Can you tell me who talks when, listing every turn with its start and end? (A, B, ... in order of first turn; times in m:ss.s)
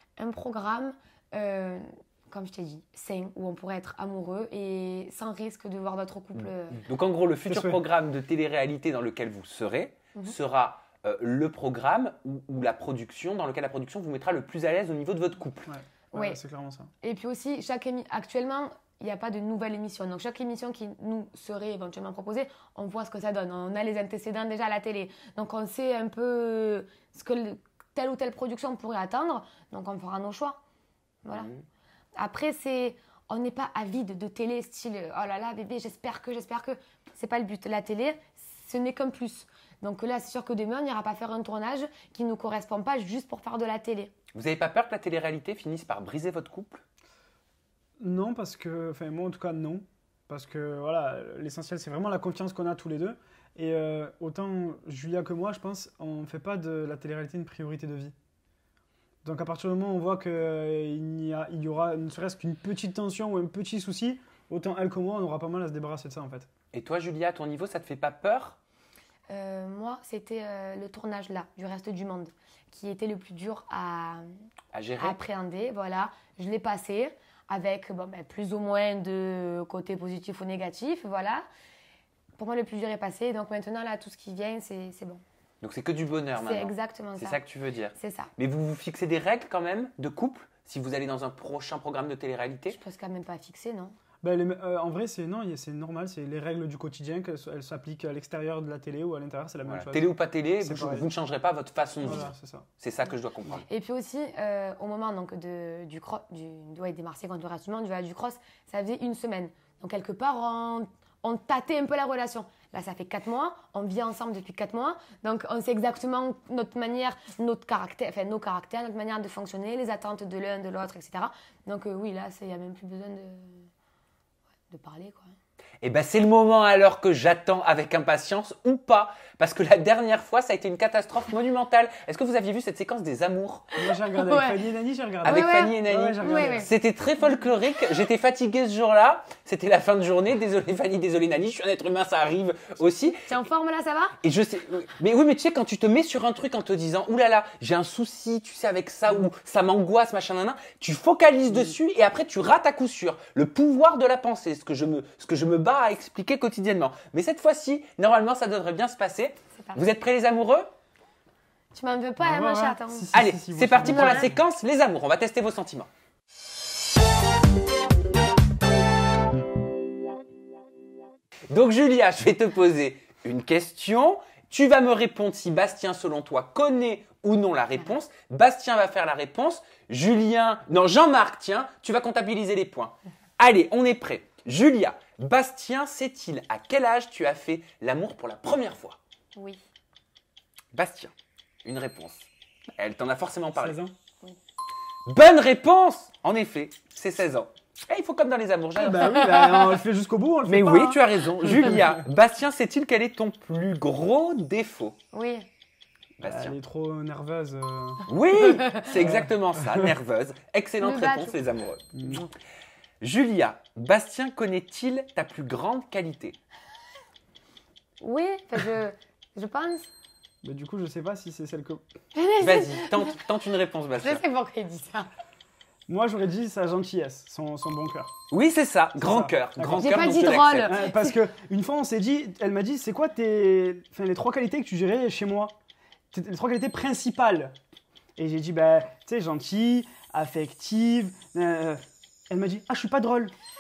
0:00.2-0:06.8 A
0:06.8-0:15.7 B
0:07.5-0:07.8 C
0:15.7-0:16.9 C
0:16.1-0:16.4 A
0:17.0-0:30.6 A
0:31.2-0:31.5 A
0:31.3-0:31.6 B
0:32.2-0:44.1 A
0:44.3-0:46.8 B
0:48.0-0:58.1 C
0:59.2-1:06.5 C
1:06.7-1:08.6 B
1:09.3-1:14.3 A
1:14.7-1:15.2 B
1:15.0-1:21.4 A
1:22.4-1:25.2 A
1:25.6-1:32.8 B
1:26.4-1:27.4 A
1:28.0-1:28.3 A
1:32.7-1:34.0 A
1:34.2-1:41.1 C
1:39.7-1:43.7 B
1:42.0-1:42.7 C
1:43.7-2:03.7 A
2:04.7-2:05.3 A
2:05.8-2:13.7 B
2:13.8-2:16.7 C
2:14.1-2:14.6 A
2:15.2-2:23.3 B
2:15.2-2:16.7 A
2:23.3-2:24.2 A
2:24.2-2:40.7 B
2:39.6-2:39.8 A
2:41.7-2:43.1 A
2:42.2-2:44.4 C
2:43.1-2:45.9 B
2:43.8-2:44.3 A
2:51.5-3:09.0 B
3:09.4-3:09.6 A
3:10.7-3:11.1 B
3:11.6-3:13.8 B
3:13.6-3:14.0 C
3:15.1-3:19.3 B
3:18.8-3:22.0 C
3:19.2-3:19.8 A
3:20.5-3:25.0 B
3:25.1-3:25.5 A
3:26.2-3:26.6 B
3:26.2-3:28.1 C
3:28.1-3:32.3 B
3:28.4-3:28.9 A
3:29.0-3:29.9 C
3:30.8-3:31.4 A
3:31.9-3:32.3 C
3:33.0-3:36.4 B
3:38.0-3:39.9 A
3:40.4-3:41.8 C
3:42.1-3:43.2 A
3:42.4-3:44.2 B
3:44.0-3:45.1 A
3:45.9-3:48.1 C
3:48.3-3:50.8 B
3:49.0-3:50.1 C
3:49.8-3:51.2 A
3:50.6-3:55.6 C
3:56.1-3:57.6 C
3:58.2-4:03.3 C